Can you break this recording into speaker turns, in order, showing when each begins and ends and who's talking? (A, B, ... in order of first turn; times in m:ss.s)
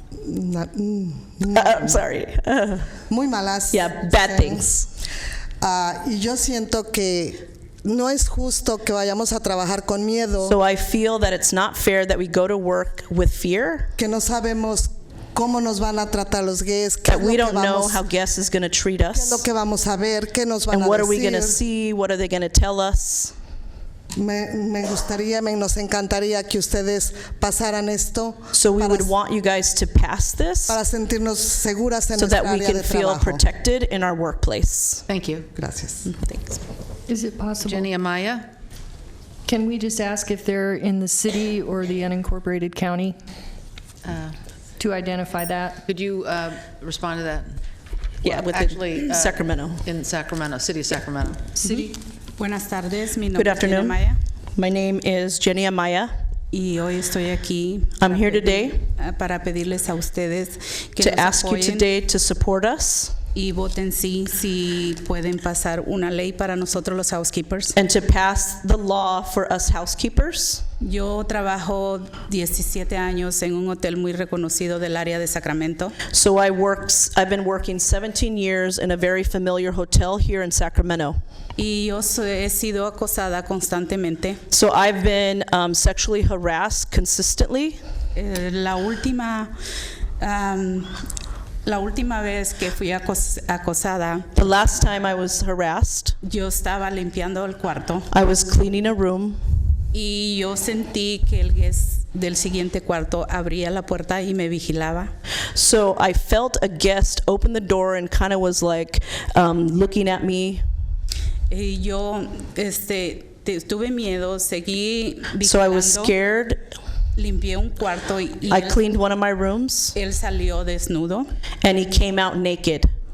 0:00.2-0:02.0 A
0:01.5-0:02.9 B
0:03.1-0:04.6 A
0:03.7-0:04.9 B
0:05.6-0:10.6 A
0:10.4-0:13.9 B
0:14.0-0:18.0 A
0:17.0-0:19.4 B
0:19.1-0:21.6 A
0:20.7-0:23.3 B
0:24.1-0:29.1 A
0:28.5-0:30.8 B
0:30.7-0:33.4 A
0:32.2-0:35.0 B
0:35.1-0:35.5 C
0:35.6-0:36.1 A
0:36.2-0:36.6 B
0:37.1-0:37.9 D
0:37.6-0:38.5 C
0:39.4-0:43.2 D
0:44.0-0:44.3 C
0:44.8-0:45.8 D
0:45.8-0:47.6 C
0:48.2-0:51.6 C
0:48.2-0:49.8 B
0:51.6-0:51.9 D
0:51.6-0:54.2 E
0:53.3-0:54.0 B
0:54.5-0:56.1 B
0:56.5-1:01.9 E
0:58.0-0:58.8 B
1:01.0-1:03.1 B
1:03.3-1:07.8 E
1:07.7-1:10.6 B
1:10.8-1:16.0 E
1:16.1-1:21.2 B
1:21.6-1:24.4 E
1:24.5-1:27.8 B
1:28.1-1:29.5 E
1:30.2-1:31.0 E
1:31.6-1:34.3 E
1:34.3-1:36.2 B
1:36.2-1:38.1 E
1:38.1-1:39.4 B
1:39.9-1:45.1 E
1:45.5-1:50.6 B
1:51.5-1:56.1 E
1:55.4-1:56.7 B
1:57.2-1:58.8 E
1:58.5-1:59.9 B
1:59.9-2:01.3 E
2:01.6-2:02.9 B